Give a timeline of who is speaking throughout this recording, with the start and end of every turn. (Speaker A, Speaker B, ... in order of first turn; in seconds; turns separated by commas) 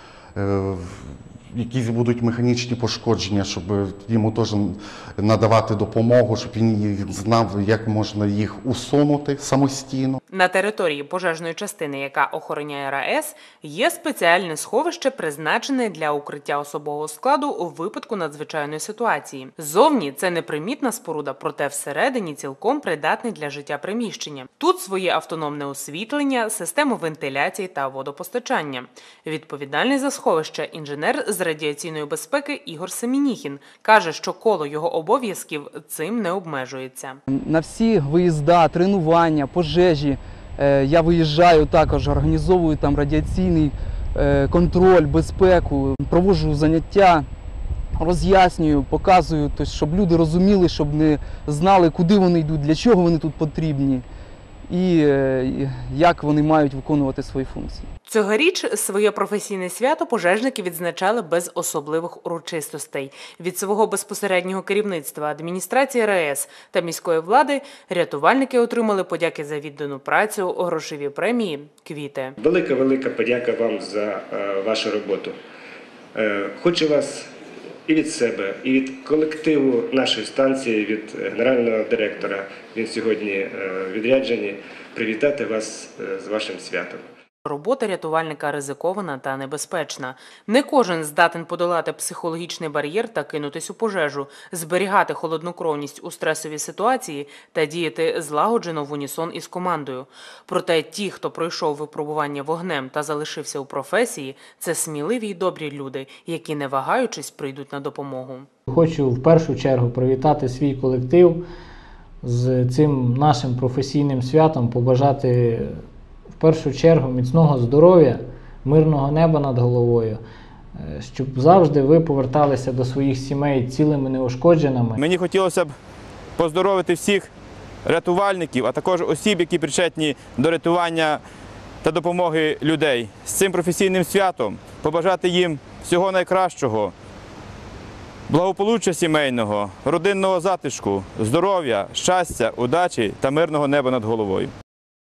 Speaker A: 0.3-10.2, Speaker B: 10.3-37.2, Speaker C: 37.3-47.3, Speaker C: 48.0-54.0, Speaker C: 54.7-57.9, Speaker B: 58.0-72.3, Speaker D: 72.4-75.4, Speaker D: 76.1-77.3, Speaker D: 77.9-87.0, Speaker B: 87.5-108.5, Speaker E: 108.7-111.4, Speaker E: 112.2-115.8, Speaker E: 116.4-120.2, Speaker E: 120.8-125.0, Speaker F: 125.0-125.7, Speaker F: 126.4-127.3, Speaker F: 127.8-131.2, Speaker F: 131.8-136.9, Speaker F: 138.3-144.5